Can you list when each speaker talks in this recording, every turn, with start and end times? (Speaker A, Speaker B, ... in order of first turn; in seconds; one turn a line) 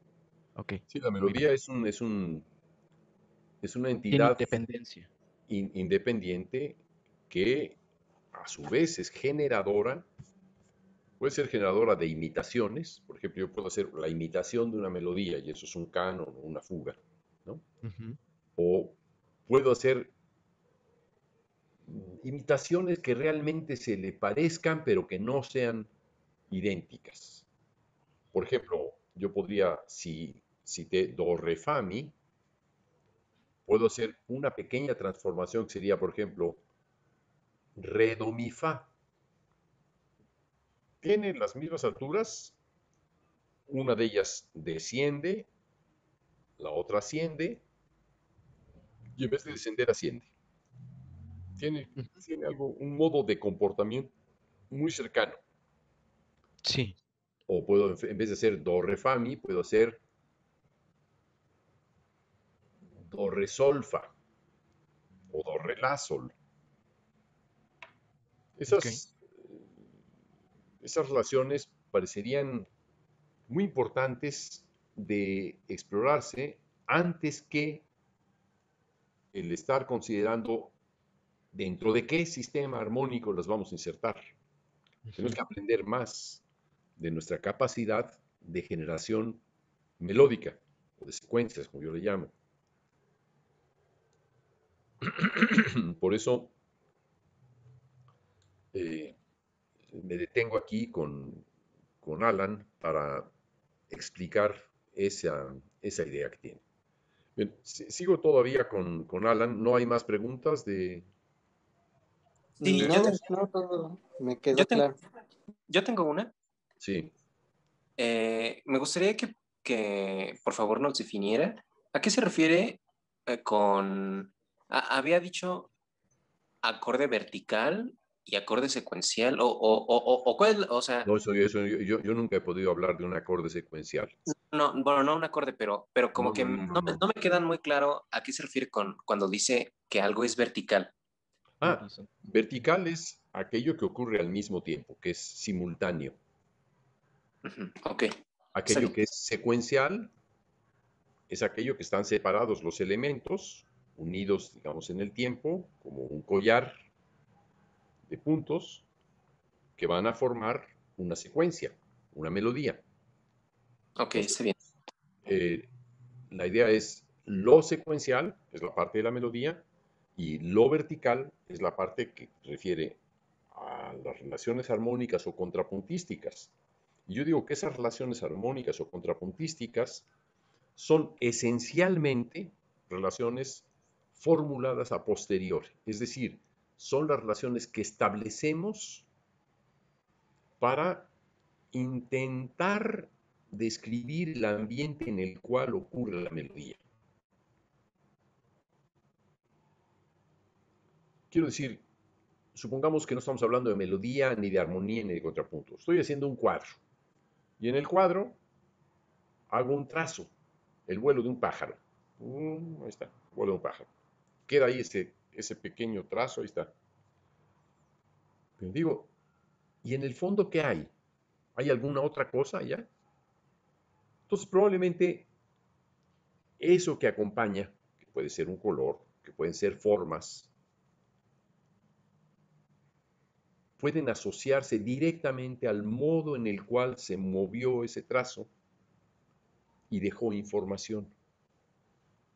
Speaker A: 0.6-1.4
Speaker B: 0.9-2.5
Speaker B: 3.6-4.5
Speaker A: 4.1-5.1
Speaker B: 5.5-7.8
Speaker B: 8.3-10.1
Speaker B: 11.2-17.6
Speaker A: 17.8-18.2
Speaker B: 18.6-20.1
Speaker B: 21.9-25.9
Speaker B: 26.5-27.4
Speaker B: 28.3-32.1
Speaker B: 33.6-36.6
Speaker B: 37.8-38.9
Speaker B: 41.0-42.6
Speaker B: 43.7-45.5
Speaker B: 46.6-47.6
Speaker B: 49.1-50.3
Speaker B: 51.6-54.1
Speaker B: 54.7-55.4
Speaker A: 56.6-57.0
Speaker B: 57.5-60.0
Speaker B: 63.0-64.1
Speaker B: 65.3-66.3
Speaker B: 68.6-69.6
Speaker A: 68.7-69.0
Speaker B: 70.8-72.7
Speaker B: 73.5-77.8
Speaker B: 79.3-80.7
Speaker B: 81.5-84.3
Speaker B: 85.1-86.4
Speaker B: 87.0-89.4
Speaker B: 90.0-92.3
Speaker B: 95.0-96.5
Speaker B: 98.7-99.2
Speaker B: 99.9-101.5
Speaker B: 102.0-103.3
Speaker B: 103.9-106.6
Speaker B: 107.3-111.1
Speaker C: 112.6-115.0
Speaker D: 112.6-113.2
Speaker B: 112.8-113.0
Speaker D: 114.5-114.9
Speaker D: 115.7-116.3
Speaker B: 116.8-117.1
Speaker D: 118.0-125.7
Speaker D: 126.6-131.1
Speaker B: 131.0-134.1
Speaker D: 134.5-140.9
Speaker B: 136.1-137.0
Speaker B: 141.6-146.2
Speaker A: 141.7-142.1
Speaker D: 147.4-148.1
Speaker B: 148.5-150.1
Speaker D: 148.7-148.9
Speaker B: 151.3-156.8
Speaker B: 158.1-158.8
Speaker B: 159.8-162.8
Speaker D: 164.0-164.5
Speaker B: 165.2-165.7
Speaker B: 166.3-169.6
Speaker B: 170.2-173.0
Speaker B: 173.5-176.5
Speaker B: 177.1-180.1
Speaker B: 180.8-189.1
Speaker B: 190.6-191.1
Speaker B: 191.7-196.8
Speaker B: 201.3-201.8
Speaker B: 202.5-206.8
Speaker B: 207.6-208.4
Speaker B: 209.5-210.3
Speaker B: 210.9-213.9
Speaker B: 214.5-216.7
Speaker B: 218.6-219.1
Speaker B: 219.8-220.9
Speaker B: 221.6-222.9
Speaker B: 224.3-225.3
Speaker B: 226.6-230.5
Speaker B: 233.8-238.5
Speaker B: 239.9-241.1